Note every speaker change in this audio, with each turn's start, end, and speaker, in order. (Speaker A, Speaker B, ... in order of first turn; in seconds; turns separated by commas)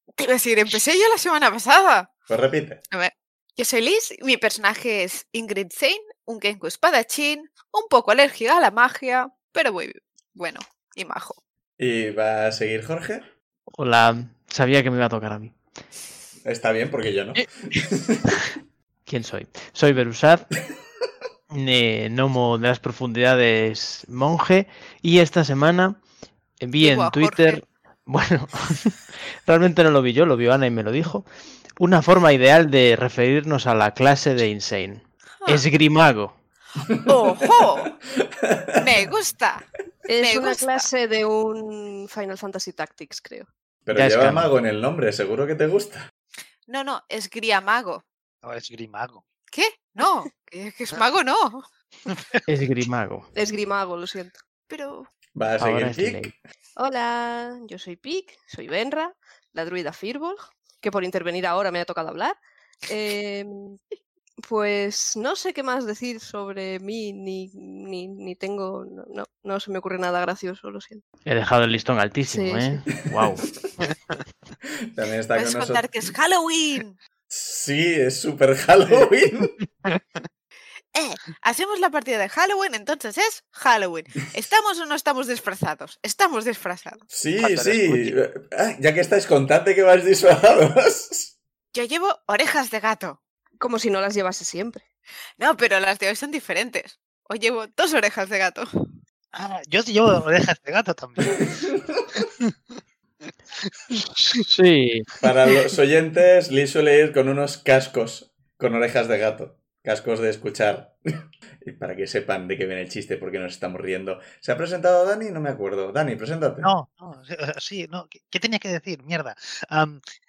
Speaker A: 0.2-2.1, Speaker B: 2.3-2.8, Speaker A: 2.9-11.4, Speaker B: 11.8-13.3, Speaker C: 13.7-15.5, Speaker B: 16.4-18.2, Speaker C: 19.1-20.5, Speaker C: 21.5-26.0, Speaker C: 26.6-31.3, Speaker A: 26.8-27.6, Speaker C: 31.8-36.4, Speaker A: 37.0-37.9, Speaker B: 38.1-38.8, Speaker A: 38.8-39.6, Speaker D: 40.1-43.5, Speaker A: 40.2-40.9, Speaker B: 43.8-46.1, Speaker C: 43.9-44.5, Speaker A: 46.7-48.0, Speaker E: 48.4-49.2, Speaker A: 49.5-51.7, Speaker E: 52.1-52.4, Speaker C: 52.5-53.3, Speaker D: 53.3-54.3, Speaker A: 54.7-55.1, Speaker B: 55.3-56.3, Speaker C: 55.6-56.3, Speaker D: 56.8-63.8, Speaker D: 64.4-71.0, Speaker C: 71.2-73.5, Speaker D: 72.2-72.8, Speaker B: 74.9-76.0, Speaker A: 75.3-77.0, Speaker B: 77.3-79.5, Speaker E: 79.6-80.0, Speaker A: 80.9-87.0, Speaker B: 87.1-91.3, Speaker E: 87.4-88.1, Speaker A: 91.7-93.2, Speaker D: 93.6-94.8, Speaker A: 95.4-98.9, Speaker E: 99.3-102.5, Speaker E: 103.7-104.4, Speaker C: 104.2-105.1, Speaker B: 105.2-110.9, Speaker B: 111.6-116.7, Speaker E: 116.6-120.0